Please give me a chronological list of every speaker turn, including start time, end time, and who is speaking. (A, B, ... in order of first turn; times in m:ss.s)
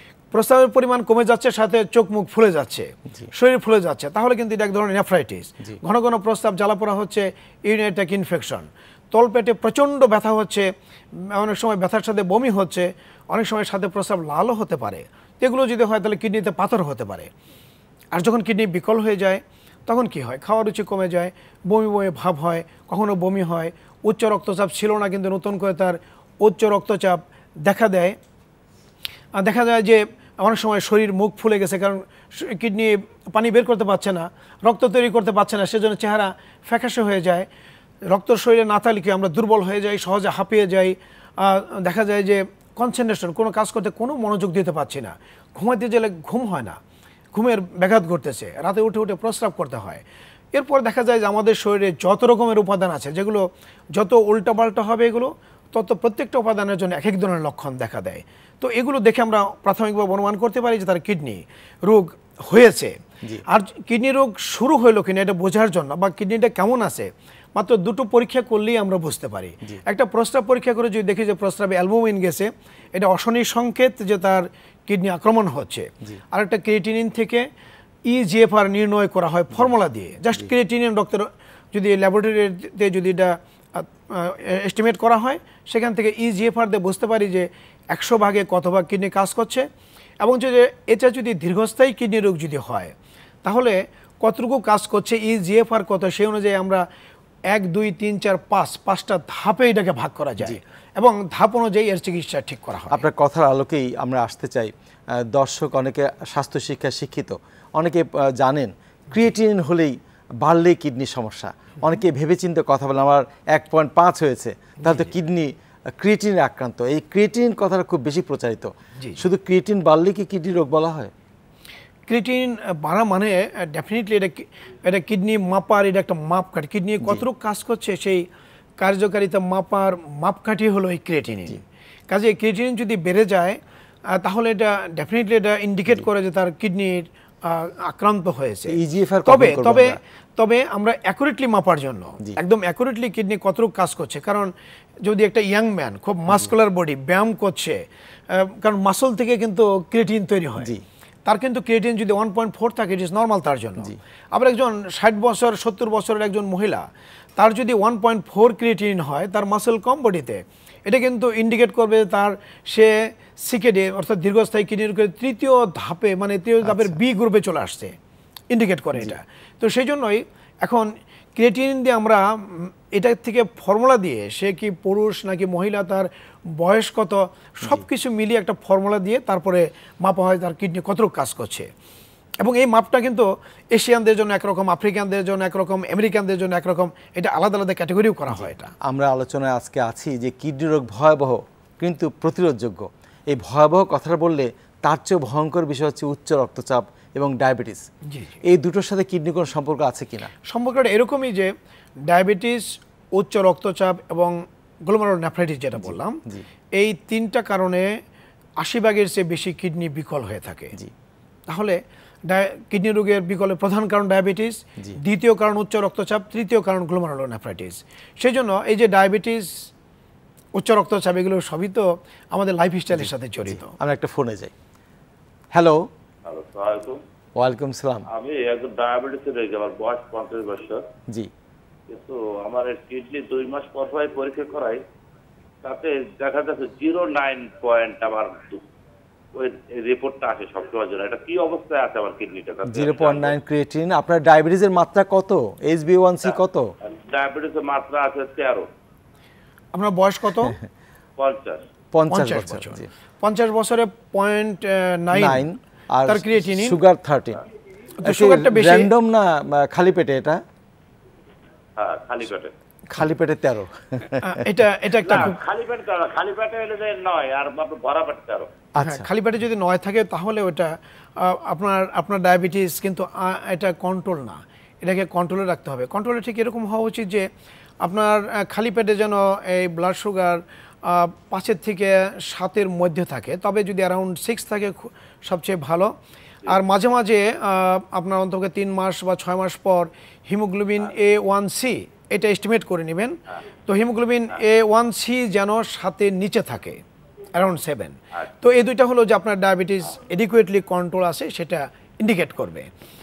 0:00.3-0:17.3 A
0:18.1-0:28.2 A
0:29.4-0:37.5 A
0:38.1-0:46.8 A
0:47.3-1:03.0 A
1:03.5-1:17.5 A
1:18.1-1:29.7 A
1:30.2-1:32.9 A
1:33.4-1:36.8 A
1:37.5-1:43.0 A
1:42.9-2:01.1 B
2:02.1-2:08.2 A
2:08.8-2:13.6 A
2:14.1-2:24.5 A
2:18.7-2:20.0 B
2:25.0-2:30.7 A
2:31.3-2:36.9 A
2:37.4-2:48.0 A
2:46.6-2:47.0 B
2:48.5-3:01.7 A
3:02.4-3:08.7 A
3:08.3-3:17.9 B
3:18.1-3:18.4 A
3:18.4-3:20.3 B
3:20.5-3:21.5 A
3:22.1-3:26.2 A
3:25.8-3:26.5 B
3:26.8-3:27.9 A
3:28.6-3:30.8 A
3:31.5-3:39.5 A
3:40.6-3:43.8 A
3:42.9-3:44.5 B
3:45.5-3:45.9 B
3:46.2-3:47.0 C
3:47.4-3:48.1 B
3:48.1-3:50.8 C
3:51.9-3:54.8 C
3:55.6-3:58.6 C
3:59.4-4:03.4 C
4:02.7-4:06.7 B
4:06.8-4:08.7 C
4:09.8-4:10.6 A
4:11.2-4:11.6 C
4:11.9-4:12.9 B
4:12.1-4:15.4 A
4:15.1-4:17.4 B
4:16.1-4:16.8 A
4:18.0-4:18.9 A
4:18.0-4:20.4 B
4:21.8-4:22.5 C
4:22.9-4:24.5 B
4:24.2-4:25.4 A
4:25.0-4:28.5 C
4:28.8-4:29.1 B
4:28.8-4:37.3 A
4:37.8-4:45.9 A
4:46.5-4:56.8 A
4:57.4-5:02.7 A